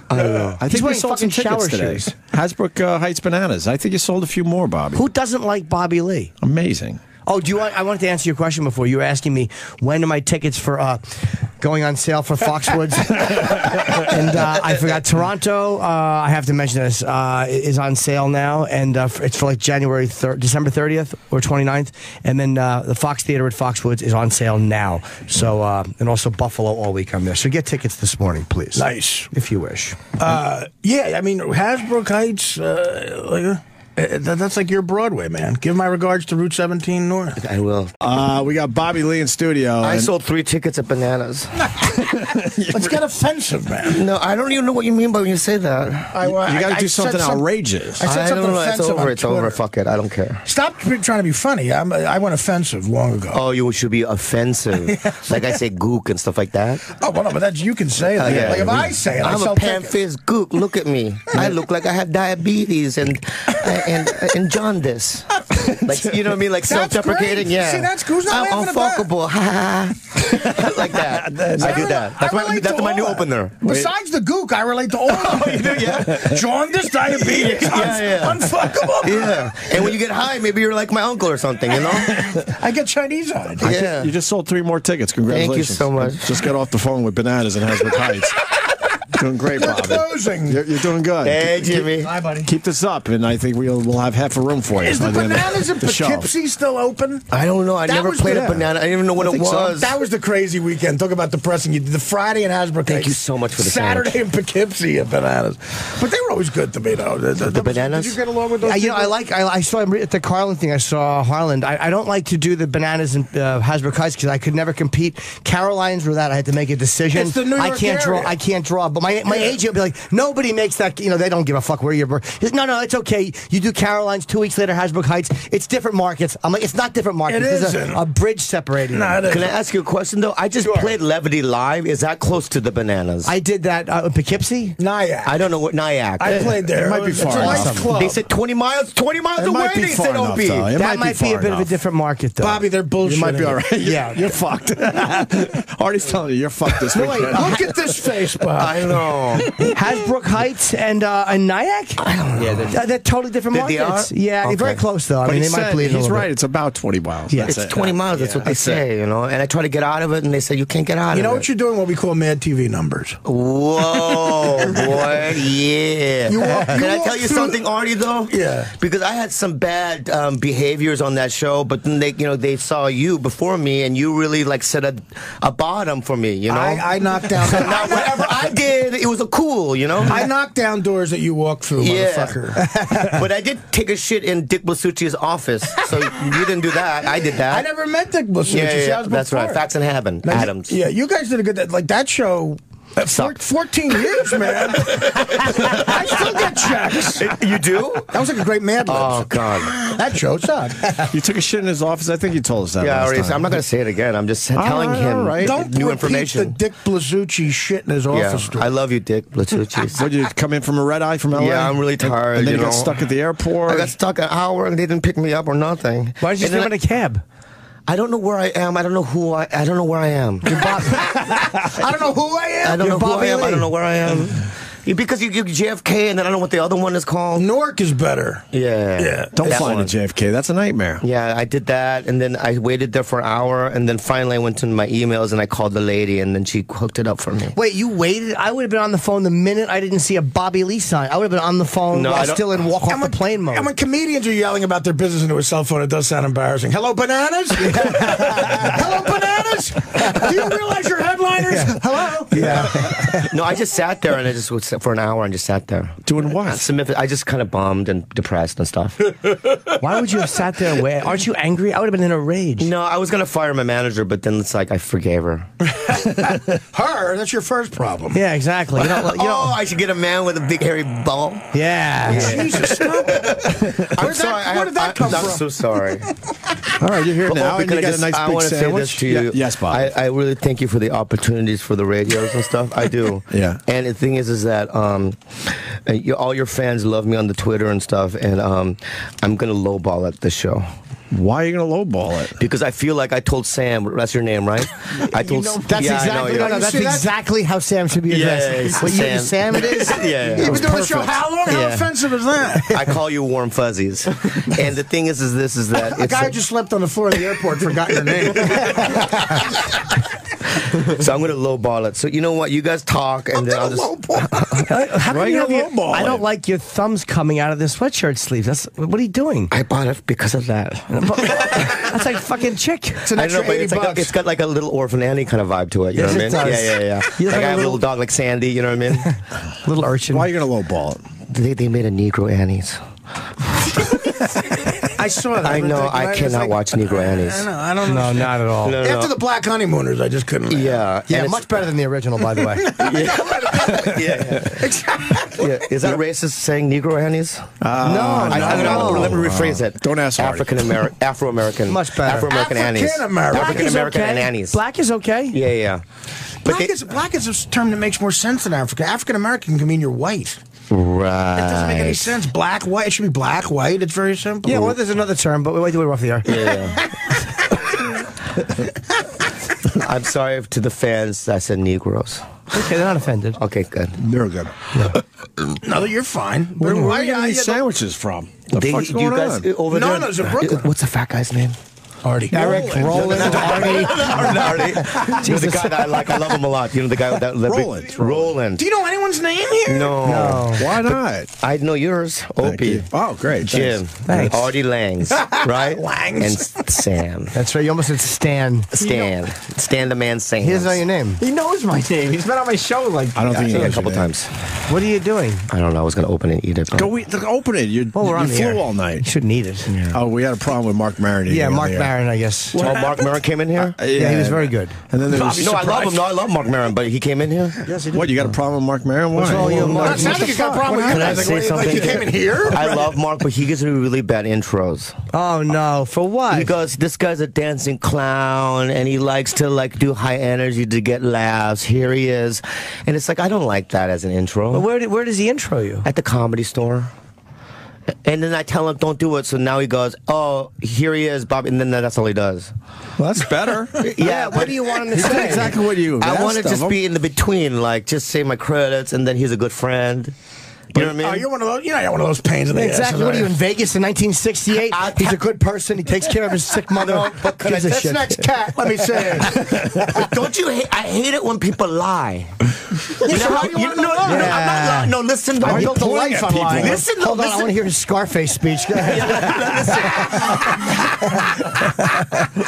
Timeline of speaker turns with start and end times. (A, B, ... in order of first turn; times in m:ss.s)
0:00.1-0:00.6 A
0:00.4-0:05.0 B
0:00.7-0:02.0 C
0:04.9-0:06.3 C
0:06.4-0:07.0 B
0:07.2-0:30.0 C
0:28.7-0:29.3 D
0:30.2-0:37.4 D
0:37.4-0:37.9 A
0:38.0-0:40.1 B
0:39.8-0:41.7 A
0:41.9-0:43.0 B
0:42.7-0:44.0 D
0:43.9-0:46.2 A
0:46.1-0:49.6 D
0:46.2-0:48.1 B
0:48.0-0:50.4 A
0:50.4-0:53.4 D
0:53.3-0:56.8 A
0:54.9-0:55.5 D
0:56.9-1:00.0 D
0:58.1-1:13.7 A
0:58.2-0:58.9 B
1:05.5-1:06.1 D
1:06.6-1:09.1 D
1:11.0-1:19.8 D
1:15.0-1:16.4 A
1:17.2-1:18.5 A
1:19.0-1:22.5 A
1:22.4-1:23.7 D
1:23.6-1:24.1 A
1:23.6-1:28.4 B
1:25.3-1:26.3 A
1:29.1-1:31.7 B
1:29.2-1:30.6 D
1:31.2-1:32.1 A
1:31.8-1:32.5 D
1:32.4-1:36.3 B
1:34.8-1:37.3 D
1:37.3-1:39.9 A
1:37.8-1:38.5 D
1:38.2-1:38.7 B
1:39.2-1:49.1 D
1:42.8-1:44.1 A
1:47.4-1:48.2 A
1:48.6-2:09.2 C
1:57.1-1:58.3 D
2:07.3-2:08.0 D
2:08.9-2:09.5 D
2:09.2-2:13.3 A
2:10.6-2:10.9 D
2:13.2-2:14.8 C
2:14.8-2:15.4 D
2:15.2-2:16.6 A
2:16.2-2:18.2 D
2:16.3-2:17.9 B
2:17.3-2:17.8 C
2:17.9-2:20.7 A
2:19.4-2:21.8 B
2:20.8-2:22.6 C
2:22.4-2:23.7 D
2:23.0-2:28.2 B
2:23.8-2:24.3 C
2:26.9-2:29.7 D
2:28.6-2:29.5 A
2:29.7-2:32.0 C
2:32.0-2:32.7 A
2:32.4-2:32.8 E
2:32.7-2:36.3 C
2:33.5-2:34.8 A
2:35.2-2:38.0 B
2:37.3-2:37.6 C
2:37.4-2:41.5 A
2:38.1-2:38.5 E
2:38.5-2:38.8 D
2:41.1-2:43.2 D
2:43.2-3:00.3 A
2:46.2-2:47.6 D
2:48.3-2:48.7 D
2:56.5-2:58.3 D
3:00.0-3:02.7 D
3:01.8-3:02.4 A
3:02.6-3:03.2 C
3:03.0-3:07.7 A
3:05.8-3:06.6 D
3:07.2-3:09.6 D
3:08.4-3:10.8 A
3:10.2-3:17.4 D
3:13.1-3:13.4 A
3:14.8-3:18.2 A
3:18.1-3:21.1 D
3:18.8-3:19.8 A
3:21.0-3:23.5 B
3:22.8-3:26.6 A
3:24.5-3:25.6 B
3:25.4-3:28.7 D
3:28.1-3:30.1 A
3:29.9-3:33.9 B
3:31.3-3:33.0 A
3:33.6-3:36.7 A
3:36.2-3:37.2 C
3:37.9-3:40.8 A
3:40.4-3:41.1 C
3:40.6-3:43.5 D
3:42.6-3:47.5 A
3:42.8-3:44.4 C
3:47.3-3:48.5 D
3:48.5-3:50.0 A
3:49.0-3:49.7 D
3:49.3-3:51.0 B
3:51.0-3:57.6 A
3:57.5-4:03.7 C
4:01.9-4:02.6 A
4:02.8-4:12.9 D
4:07.6-4:08.7 C
4:11.5-4:13.3 C
4:12.3-4:19.1 A
4:16.0-4:16.6 B
4:19.8-4:22.7 C
4:22.6-4:25.5 A
4:25.7-4:28.2 D
4:28.1-4:29.5 C
4:28.8-4:36.1 A
4:31.5-4:32.5 C
4:32.0-4:36.6 D
4:36.8-4:39.9 B
4:37.2-4:50.6 A
4:43.3-4:43.6 B
4:51.1-4:52.4 B
4:52.4-4:57.0 A
4:55.0-4:56.0 E
4:55.6-5:00.9 C
4:56.0-4:57.1 D
4:58.1-5:02.0 A
5:00.4-5:02.7 D
5:02.7-5:06.3 A
5:05.8-5:09.5 D
5:08.3-5:09.0 A
5:10.7-5:14.7 A
5:13.3-5:14.7 D
5:14.7-5:19.5 C
5:15.0-5:16.2 B
5:19.5-5:21.7 A
5:20.9-5:23.1 C
5:23.0-5:24.1 D
5:23.1-5:29.1 A
5:25.9-5:27.8 C
5:29.6-5:30.3 C
5:30.1-5:31.0 B
5:31.3-5:32.8 A
5:34.9-5:40.8 D
5:35.4-5:37.5 A
5:37.8-5:38.8 C
5:38.6-5:39.1 A
5:40.5-5:41.7 A
5:41.1-5:42.7 C
5:42.3-5:45.6 D
5:42.8-5:44.7 A
5:45.3-5:54.6 A
5:47.6-5:50.8 B
5:48.2-5:49.2 C
5:51.7-5:52.3 C
5:52.2-5:53.8 D
5:53.3-5:55.4 C
5:55.3-5:55.8 A
5:56.4-5:56.7 A
5:56.4-6:00.4 D
6:00.7-6:02.1 A
6:01.4-6:04.7 D
6:04.4-6:06.6 C
6:04.5-6:04.8 A
6:06.2-6:06.9 A
6:09.7-6:12.3 A
6:12.5-6:13.4 C
6:13.4-6:14.0 A
6:14.0-6:15.0 B
6:14.7-6:15.0 C
6:15.6-6:17.7 D
6:16.6-6:17.0 C
6:16.7-6:19.5 B
6:18.5-6:21.6 A
6:19.6-6:20.7 D
6:22.0-6:23.9 D
6:22.3-6:25.9 C
6:22.4-6:23.4 B
6:22.8-6:28.6 A
6:27.4-6:28.3 B
6:28.6-6:30.2 D
6:29.6-6:32.8 A
6:30.0-6:30.6 C
6:30.4-6:31.3 B
6:32.4-6:34.4 B
6:33.4-6:37.3 A
6:34.1-6:34.4 C
6:35.1-6:36.8 D
6:37.3-6:38.9 C
6:38.7-6:40.8 A
6:40.4-6:41.2 C
6:41.2-6:43.7 E
6:43.1-6:44.1 B
6:43.3-6:44.5 A
6:44.7-6:45.5 C
6:45.5-6:46.9 A
6:46.7-6:49.0 B
6:47.9-6:49.7 C
6:49.7-6:50.0 A
6:49.9-6:51.9 B
6:51.3-6:52.6 C
6:52.5-6:53.1 D
6:52.5-6:53.8 A
6:53.7-6:55.9 B
6:53.9-6:54.7 C
6:55.1-6:55.9 D
6:55.3-6:57.6 A
6:57.6-6:58.1 C
6:57.9-7:01.4 B
6:59.2-7:00.4 C
6:59.4-7:04.9 A
6:59.4-7:02.8 D
7:05.1-7:06.5 C
7:06.3-7:14.6 A
7:14.5-7:15.9 C
7:15.8-7:16.9 A
7:18.0-7:22.5 A
7:23.0-7:23.9 B
7:23.8-7:30.1 A
7:24.0-7:25.6 C
7:24.9-7:26.8 B
7:30.7-7:31.3 A
7:30.8-7:33.3 D
7:32.5-7:38.3 C
7:34.5-7:35.2 A
7:36.7-7:42.3 A
7:38.5-7:39.9 D
7:43.0-7:44.4 D
7:43.0-7:45.8 A
7:44.0-7:44.9 C
7:45.4-7:46.8 B
7:45.4-7:46.8 D
7:46.5-7:47.5 A
7:46.6-7:50.4 C
7:48.8-7:50.7 A
7:51.6-7:52.2 C